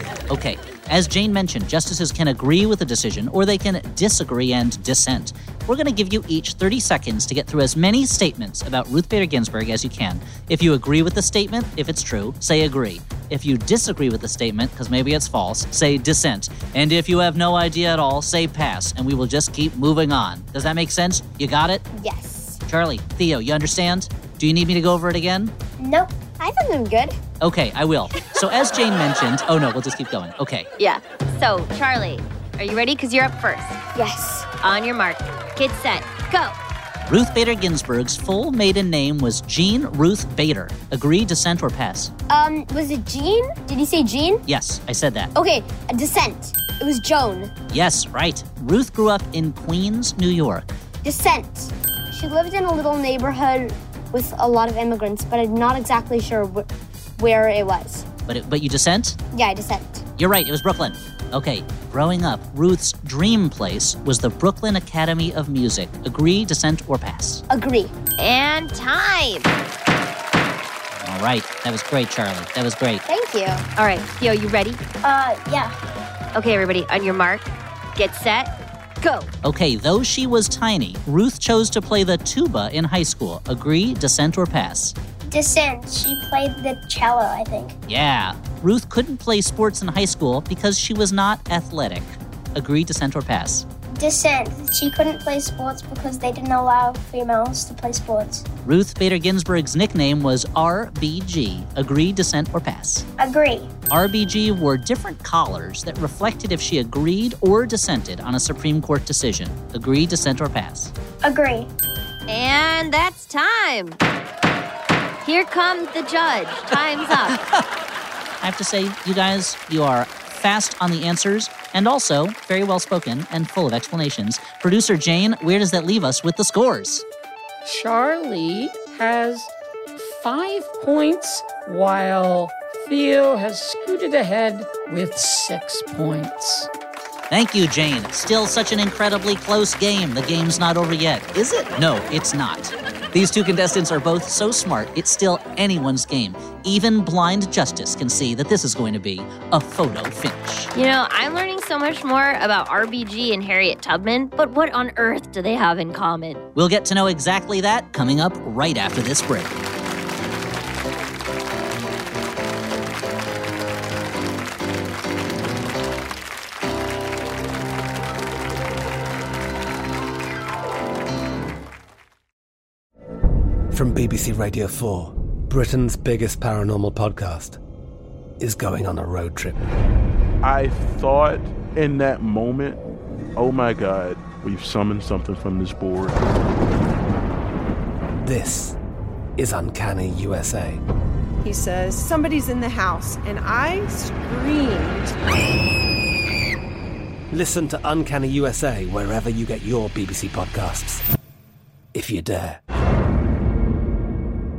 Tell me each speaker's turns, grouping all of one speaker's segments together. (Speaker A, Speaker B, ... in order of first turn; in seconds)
Speaker A: 0.3-21.9, 22.7-25.5, 27.4-30.7, 37.1-42.1, 44.5-45.3, 47.7-50.8, 58.3-59.2, 60.2-67.4, 70.9-73.0, 79.4-85.0, 87.9-93.7, 98.7-103.1, 103.9-110.9, 117.2-117.6, 118.4-127.0, 137.3-150.7, 156.6-159.6
Speaker B: 21.9-22.6, 26.4-27.2, 34.0-34.5, 42.3-44.4, 45.4-47.5, 51.0-58.1, 59.3-60.0, 67.5-68.0, 73.1-73.7
Speaker C: 25.8-26.1, 75.0-75.8, 85.3-87.8, 94.0-98.5, 103.2-103.7, 111.2-111.7
Speaker D: 30.8-33.8, 34.6-36.5, 68.2-69.5, 73.8-74.8, 76.3-79.3, 112.3-114.0, 115.2-117.4, 150.7-156.4
Speaker E: 127.6-136.7
Speaker F: 173.7-177.6, 178.4-179.6, 188.2-188.8, 189.4-190.8, 197.3-201.0, 201.9-202.6
Speaker G: 180.4-182.8, 183.4-186.2
Speaker H: 191.4-195.2